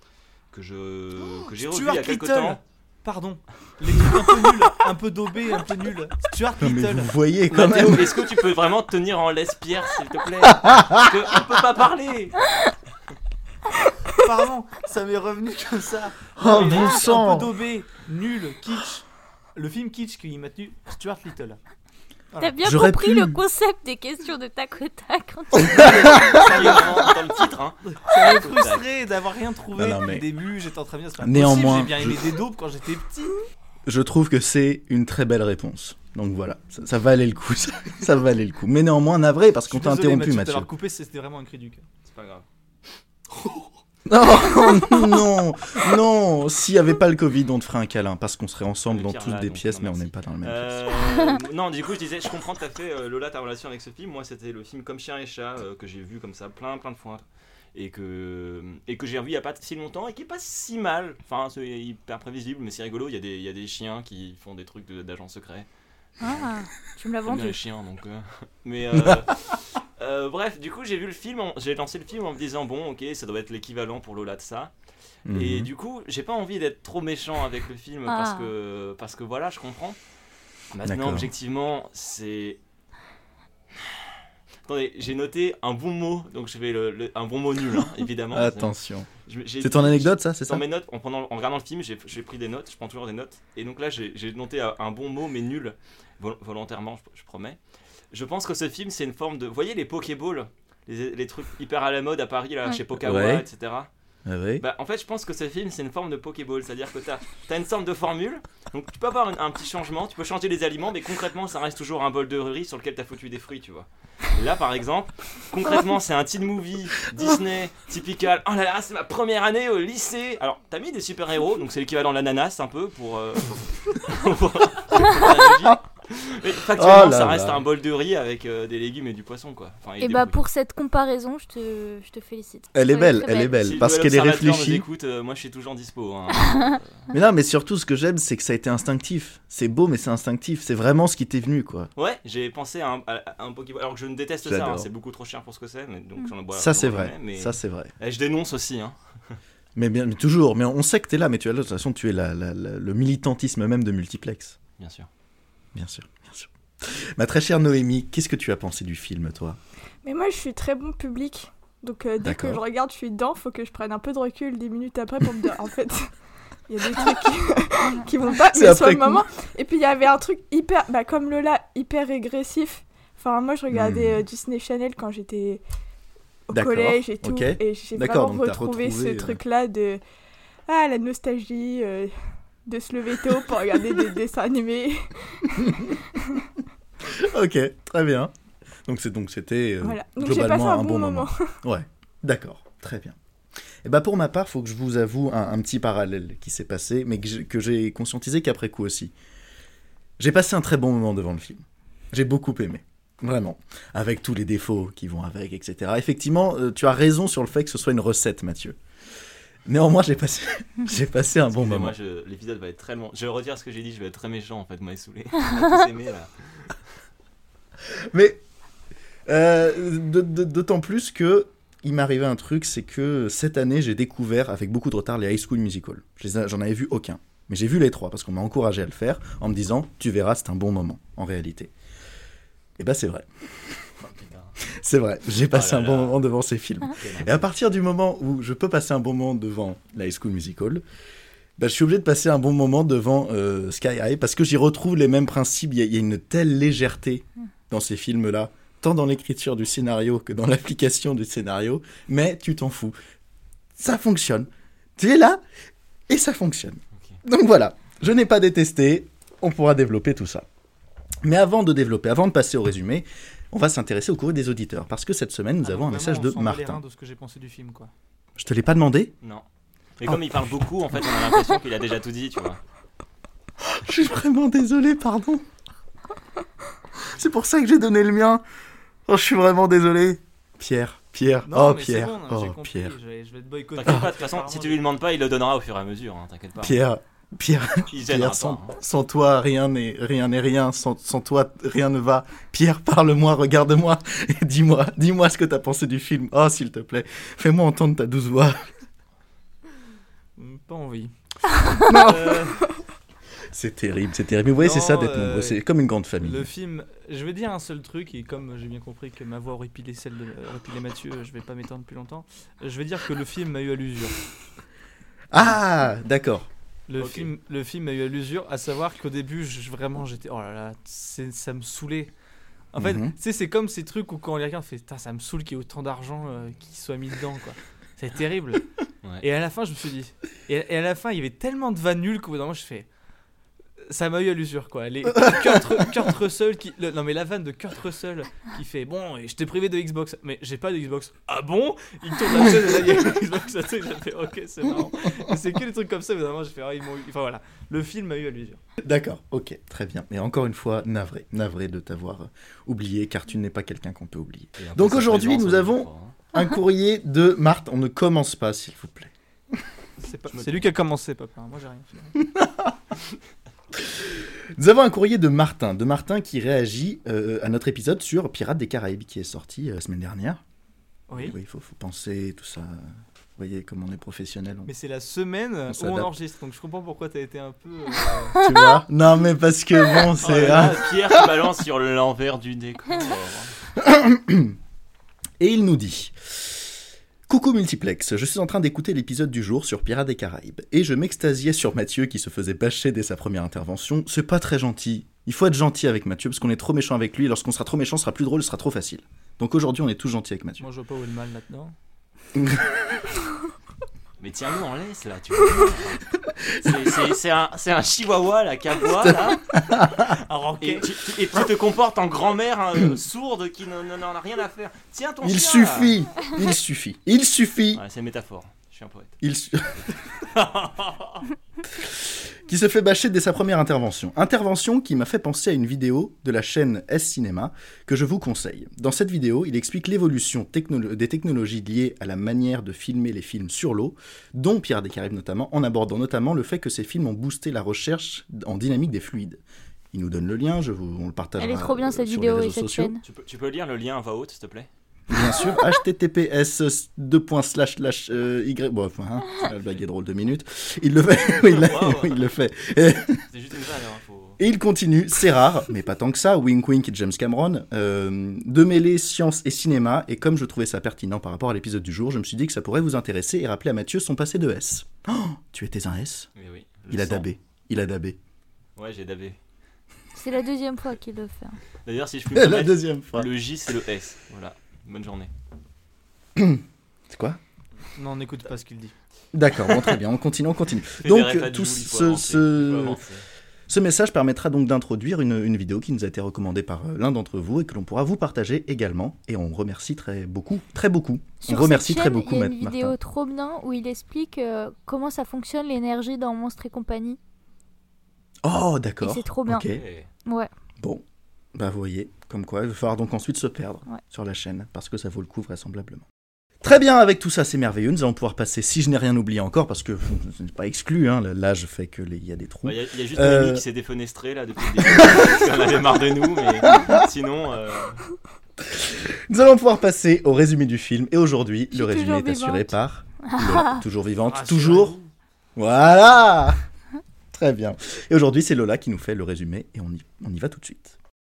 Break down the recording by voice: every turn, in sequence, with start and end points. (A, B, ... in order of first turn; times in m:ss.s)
0:00.5-0:02.6 A
0:01.4-0:07.1 B
0:06.6-0:08.2 C
0:07.5-0:12.4 A
0:10.4-0:11.1 C
0:14.2-0:21.6 B
0:16.4-0:17.5 C
0:16.5-0:17.0 A
0:22.3-0:22.6 B
0:22.4-0:26.2 D
0:22.6-0:23.4 C
0:25.7-0:26.4 C
0:25.8-0:27.1 B
0:25.9-0:28.8 A
0:28.0-0:33.4 B
0:29.8-0:30.3 C
0:31.2-0:32.3 C
0:33.9-0:40.7 C
0:39.7-0:41.8 B
0:42.0-0:42.4 A
0:44.1-0:51.0 C
0:48.9-1:05.7 A
1:06.2-1:07.6 D
1:06.2-1:06.5 A
1:07.3-1:14.7 A
1:15.3-1:15.7 C
1:15.3-1:20.0 A
1:18.1-1:18.5 D
1:20.7-1:22.6 A
1:20.8-1:21.3 C
1:24.7-1:28.7 A
1:28.3-1:29.1 C
1:29.2-1:37.6 A
1:29.6-1:30.6 C
1:38.1-1:43.9 A
1:43.0-1:43.4 C
1:44.3-1:44.6 C
1:44.6-2:10.4 A
2:05.5-2:05.8 C
2:06.8-2:07.6 C
2:10.0-2:13.7 D
2:12.7-2:14.9 C
2:13.6-2:17.0 A
2:17.1-2:21.9 C
2:22.0-2:29.4 A
2:24.4-2:24.9 C
2:26.5-2:27.9 C
2:29.8-2:34.6 C
2:34.8-2:35.1 A
2:35.8-2:39.6 C
2:40.0-2:46.1 E
2:42.2-2:42.6 C
2:46.7-2:55.6 E
2:48.3-2:49.3 C
2:53.7-2:54.2 C
2:56.5-3:00.0 E
2:56.5-2:59.4 C
3:00.7-3:02.2 E
3:02.7-3:06.4 E
3:05.6-3:05.9 C
3:07.0-3:08.3 C
3:08.9-3:13.2 C
3:09.8-3:11.4 E
3:13.8-3:19.1 C
3:20.2-3:28.8 C
3:29.7-3:32.0 C
3:31.5-3:36.8 A
3:37.9-3:38.4 C
3:39.3-3:51.7 C
3:52.8-3:53.8 C
3:54.0-3:54.6 A
3:54.6-4:00.8 C
3:55.5-3:56.2 A
3:57.0-3:57.4 A
4:01.6-4:13.0 C
4:13.8-4:15.4 C
4:16.1-4:20.5 C
4:21.2-4:26.8 C
4:25.6-4:27.9 B
4:28.4-4:29.2 C
4:30.0-4:32.6 A
4:30.0-4:30.4 C
4:33.6-4:35.4 C
4:37.1-4:38.4 C
4:39.1-4:43.0 C
4:41.4-4:44.8 B
4:43.8-4:46.8 A
4:46.6-4:58.6 C
4:47.9-4:48.8 A
5:00.4-5:01.1 B
5:01.8-5:02.7 B
5:01.9-5:02.5 C
5:03.5-5:06.5 C
5:04.6-5:05.6 B
5:06.2-5:14.2 B
5:15.3-5:16.5 C
5:16.9-5:22.1 B
5:17.0-5:17.3 A
5:22.7-5:28.6 B
5:22.8-5:23.2 C
5:29.2-5:32.9 B
5:33.9-5:48.6 B
5:48.8-5:59.1 C
5:54.6-5:56.2 A
6:00.0-6:02.2 B
6:00.3-6:00.7 A
6:02.2-6:02.8 C
6:03.7-6:10.4 C
6:11.1-6:11.4 B
6:11.1-6:14.7 C
6:14.7-6:18.4 B
6:15.7-6:16.1 C
6:18.4-6:18.8 D
6:18.4-6:21.3 C
6:20.2-6:23.6 A
6:20.2-6:20.8 B
6:23.8-6:24.6 C
6:25.4-6:26.7 C
6:27.3-6:40.7 C
6:40.6-6:41.7 B
6:42.4-6:42.7 C
6:44.2-6:49.4 A
6:49.0-6:50.2 C
6:50.1-6:50.9 B
6:50.6-6:56.2 A
6:55.2-6:57.8 C
6:57.7-6:59.1 A
6:59.2-6:59.8 C
7:00.3-7:01.2 A
7:01.8-7:19.4 C
7:19.9-7:22.9 C
7:21.4-7:23.0 D
7:23.0-7:24.7 A
7:25.1-7:33.2 C
7:31.4-7:32.3 A
7:33.3-7:34.4 A
7:34.4-7:46.3 C
7:46.4-7:47.3 A
7:46.9-7:48.2 C
7:48.8-7:49.4 A
7:50.2-7:51.6 D
7:51.8-7:55.3 A
7:52.3-7:53.3 C
7:56.4-7:57.4 C
7:58.0-7:59.0 B
7:59.3-8:03.0 C
7:59.7-8:00.0 A
8:01.0-8:03.2 A
8:03.7-8:13.0 C
8:11.4-8:17.2 D
8:18.4-8:19.8 C
8:19.0-8:19.7 D
8:19.7-8:20.1 A
8:20.2-8:20.5 D
8:21.6-8:26.0 C
8:26.6-8:33.6 C
8:32.6-8:38.0 A
8:34.9-8:35.4 C
8:36.6-8:37.1 C
8:38.6-8:45.0 C
8:41.7-8:42.7 E
8:43.3-8:43.8 D
8:44.2-8:45.1 B
8:45.6-8:46.6 C
8:47.3-8:51.0 C